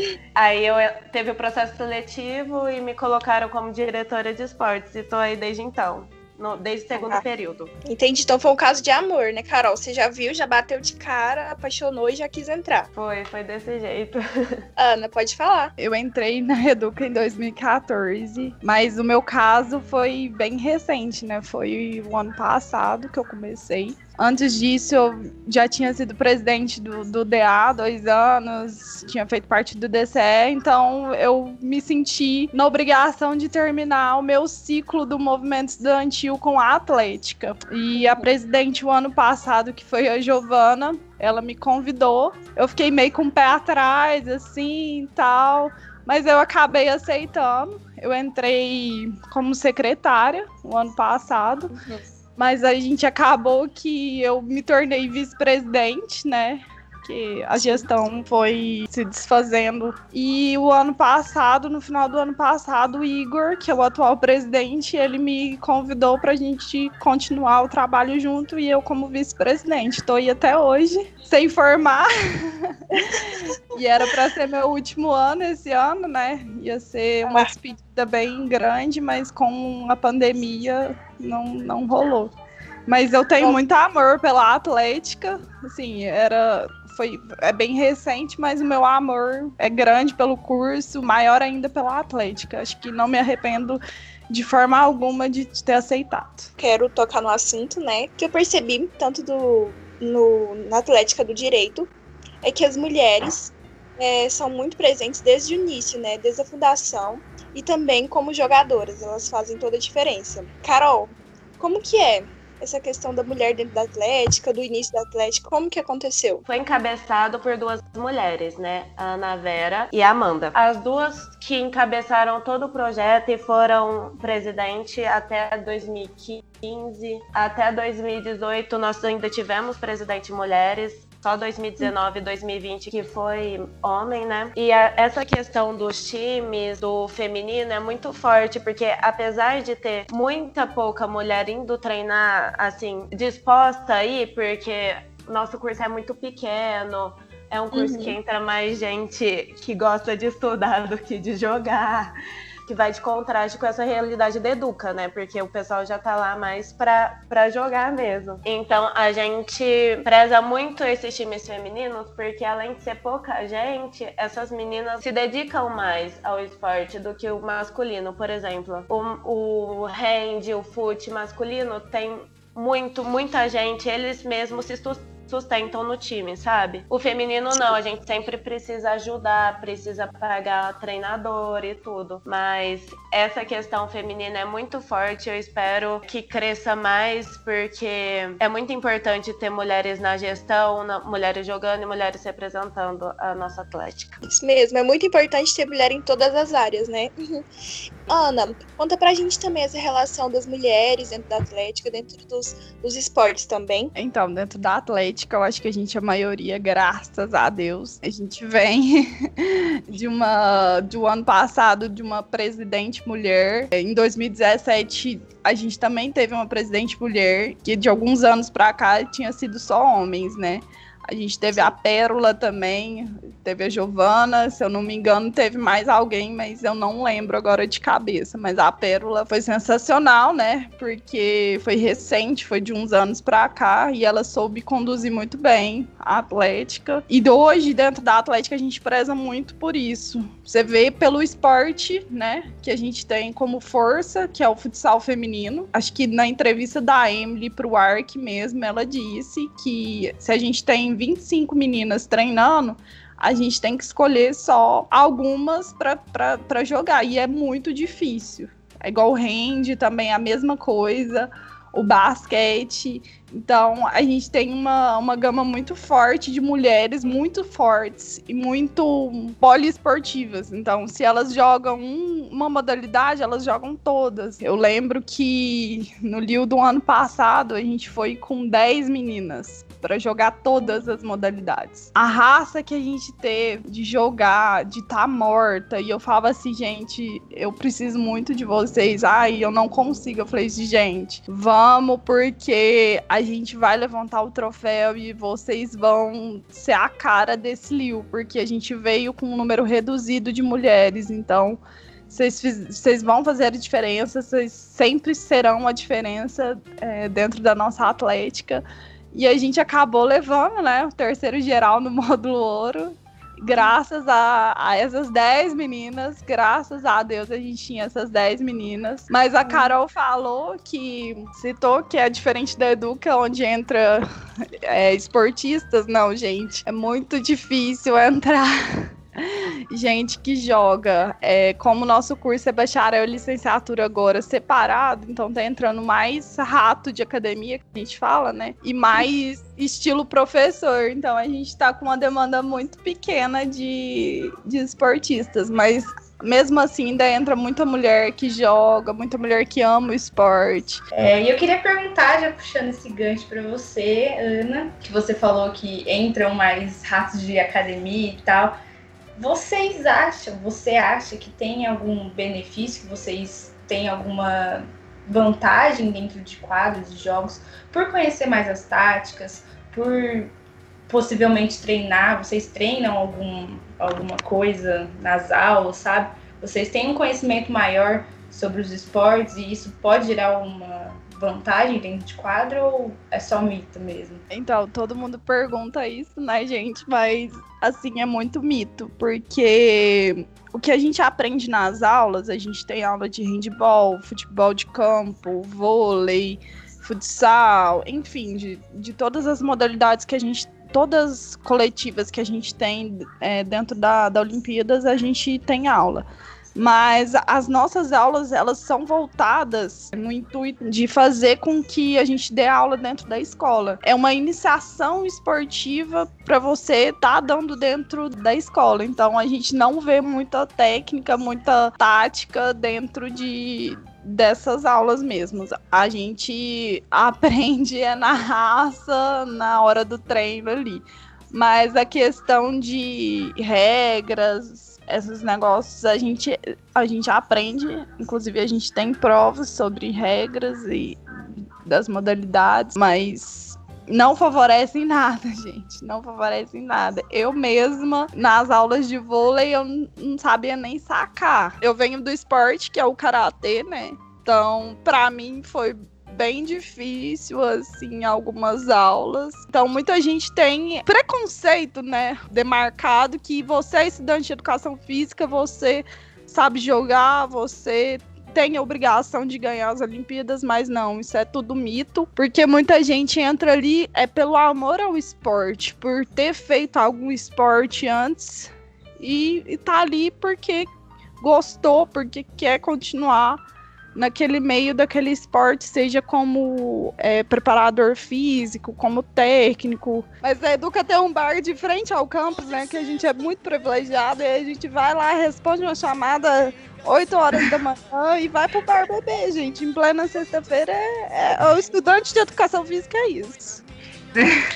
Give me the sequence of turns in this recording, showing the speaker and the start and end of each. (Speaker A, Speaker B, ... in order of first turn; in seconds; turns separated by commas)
Speaker A: 0.3-7.7, Speaker B: 6.9-7.2, Speaker B: 7.8-12.9, Speaker A: 12.9-14.6, Speaker B: 14.8-15.7, Speaker C: 15.8-51.7, Speaker B: 38.0-38.2, Speaker B: 51.7-52.0, Speaker C: 52.4-82.3, Speaker B: 57.6-57.9, Speaker B: 73.0-73.2, Speaker C: 82.9-96.5, Speaker B: 96.6-101.9, Speaker B: 102.4-116.4, Speaker A: 116.4-152.1, Speaker B: 147.7-148.2, Speaker A: 152.7-194.2, Speaker B: 194.2-197.4, Speaker B: 198.1-203.9, Speaker C: 203.9-324.1, Speaker B: 221.5-221.8, Speaker B: 319.4-319.7, Speaker C: 324.7-350.8, Speaker D: 350.9-358.6, Speaker D: 359.1-370.3, Speaker D: 370.9-384.2, Speaker C: 384.3-441.0, Speaker C: 441.6-480.7, Speaker C: 481.2-483.4, Speaker C: 483.9-503.6